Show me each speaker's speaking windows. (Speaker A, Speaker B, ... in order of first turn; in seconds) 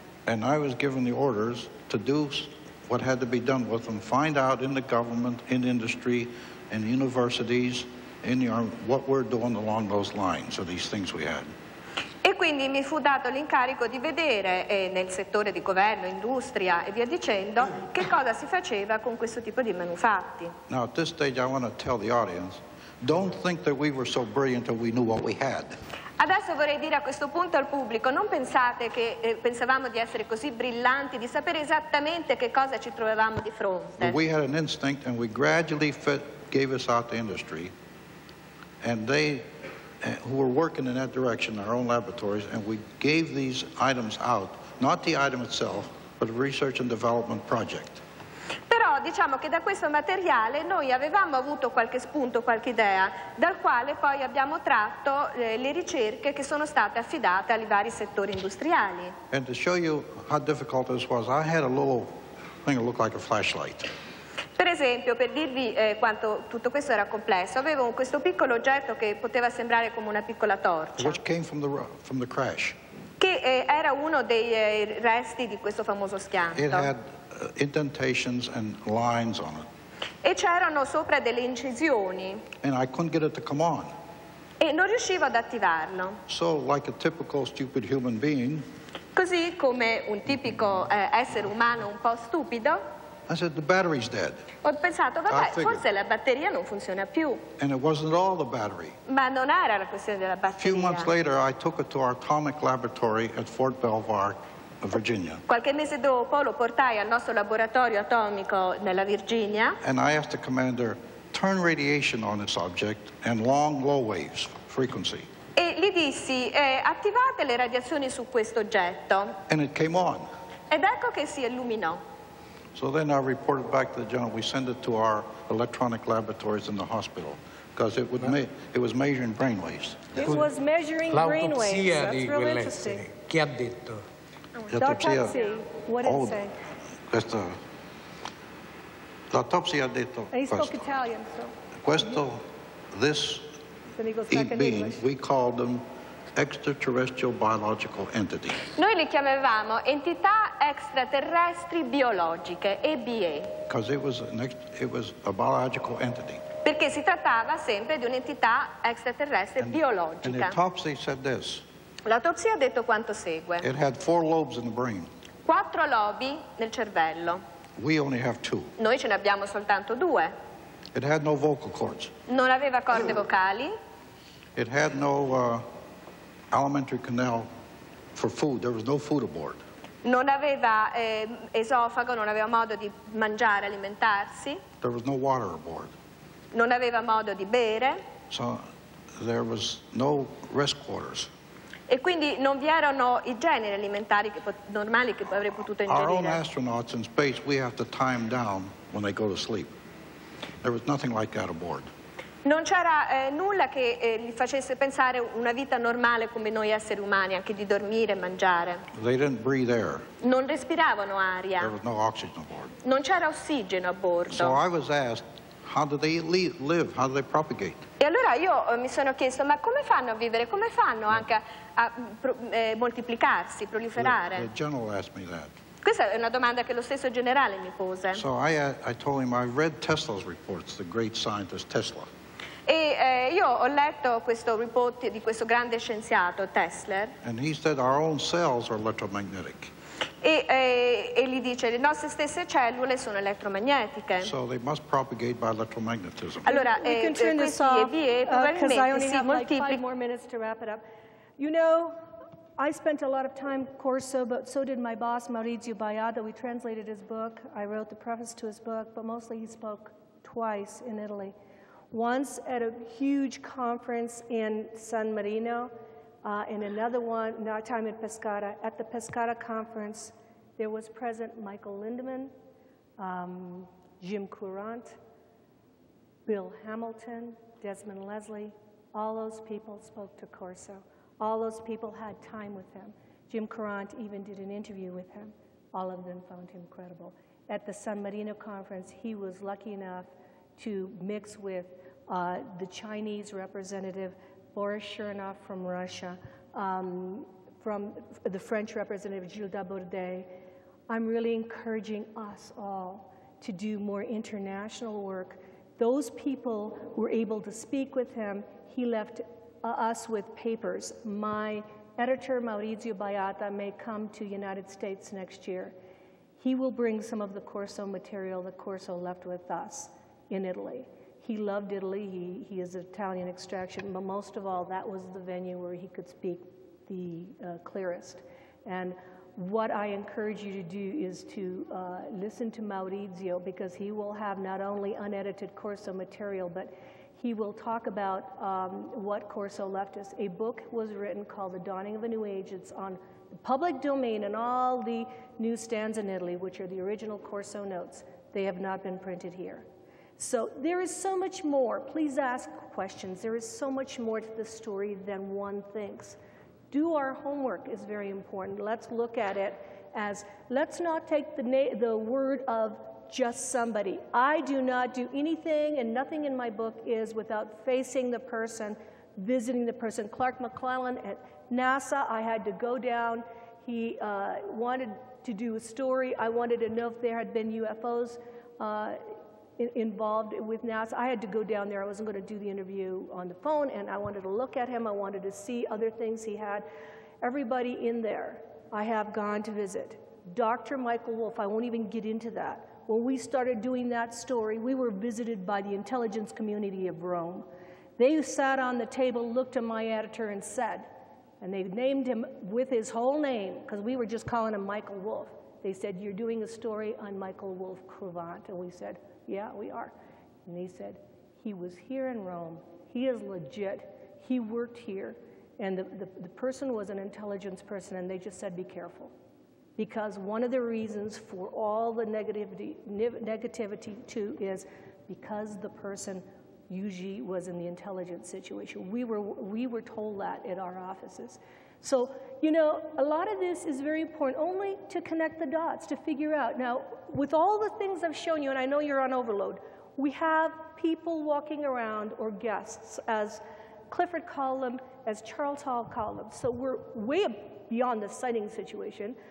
Speaker A: 0.3-11.5, 20.7-25.8, 34.0-37.7, 38.8-39.5, 40.0-48.0, 59.3-63.9, 71.0-72.8, 76.5-79.7, 82.6-83.9, 86.3-88.7, 93.3-94.4, 95.3-95.8, 97.6-99.0, 100.5-105.4, 109.8-115.3, 119.5-120.3, 122.7-130.2, 134.7-135.3, 136.0-136.5, 137.1-137.6, 139.3-140.8, 141.8-143.5, 144.3-148.7, 153.7-156.4, 159.6-161.6, 163.6-165.1, 167.8-168.7, 170.9-172.1, 174.6-175.7, 176.5-177.5, 178.1-179.6, 184.8-185.9, 188.3-191.3, 195.9-199.7, 200.6-201.9, 208.9-210.0, 211.6-212.7, 214.3-217.8, 224.0-225.5, 228.1-232.1, 237.2-239.7, 244.2-246.5
Speaker B: 12.2-20.5, 26.2-34.1, 48.7-59.1, 64.6-71.2, 73.2-76.9, 80.2-82.5, 84.6-86.2, 89.1-92.8, 94.6-97.4, 99.1-101.1, 105.5-109.8, 115.5-119.4, 120.7-122.0, 134.6-135.6, 148.7-153.5, 156.6-160.6, 162.0-163.7, 165.4-167.4, 168.8-170.3, 172.3-173.8, 180.0-184.6, 186.5-188.0, 191.9-196.4, 202.4-208.8, 210.2-211.7, 212.8-214.6, 218.0-224.5, 225.8-228.2, 232.7-237.2, 240.2-244.3, 246.4-249.8
Speaker C: 130.1-133.0, 134.8-136.5, 140.3-142.2, 144.0-145.0, 246.4-250.8, 251.4-252.0, 252.6-261.3, 261.9-265.7, 266.2-272.3, 273.0-275.0, 276.2-300.3, 300.9-315.7, 316.4-349.6, 350.2-356.2, 356.7-379.0, 379.6-386.6, 387.2-397.4, 398.0-409.9, 410.4-419.1, 419.8-449.2
Speaker D: 131.1-134.0